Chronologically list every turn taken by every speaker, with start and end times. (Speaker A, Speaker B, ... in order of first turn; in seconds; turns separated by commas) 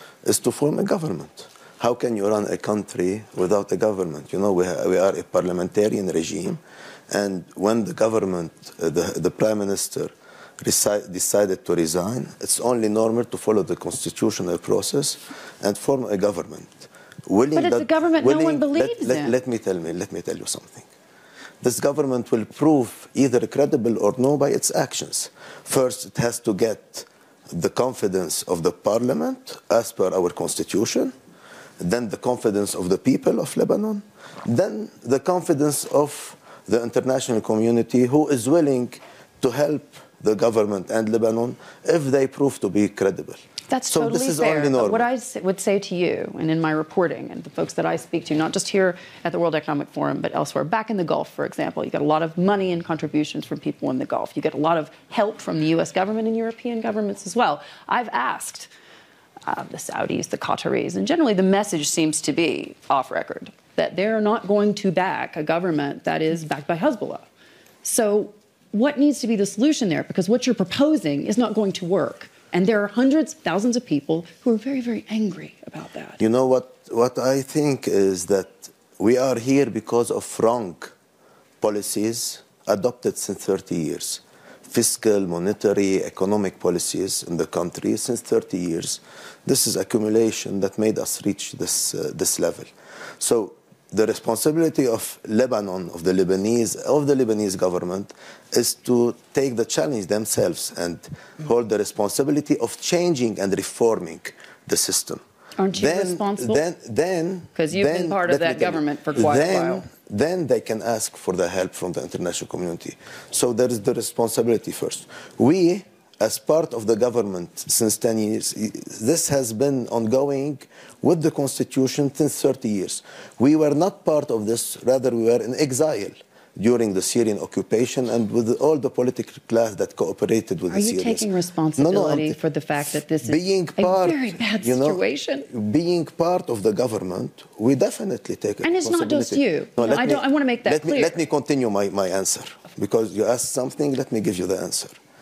Speaker A: 0.2-20.9, Speaker B: 17.6-19.4, Speaker A: 21.6-31.1, Speaker A: 31.8-43.4, Speaker B: 43.7-58.7, Speaker A: 43.9-45.1, Speaker B: 59.5-67.3, Speaker B: 67.8-76.2, Speaker A: 76.2-80.9, Speaker A: 81.6-105.2, Speaker B: 105.6-106.6, Speaker A: 105.7-132.4, Speaker B: 107.5-109.9, Speaker B: 130.7-135.5, Speaker A: 133.2-145.0, Speaker B: 138.6-141.2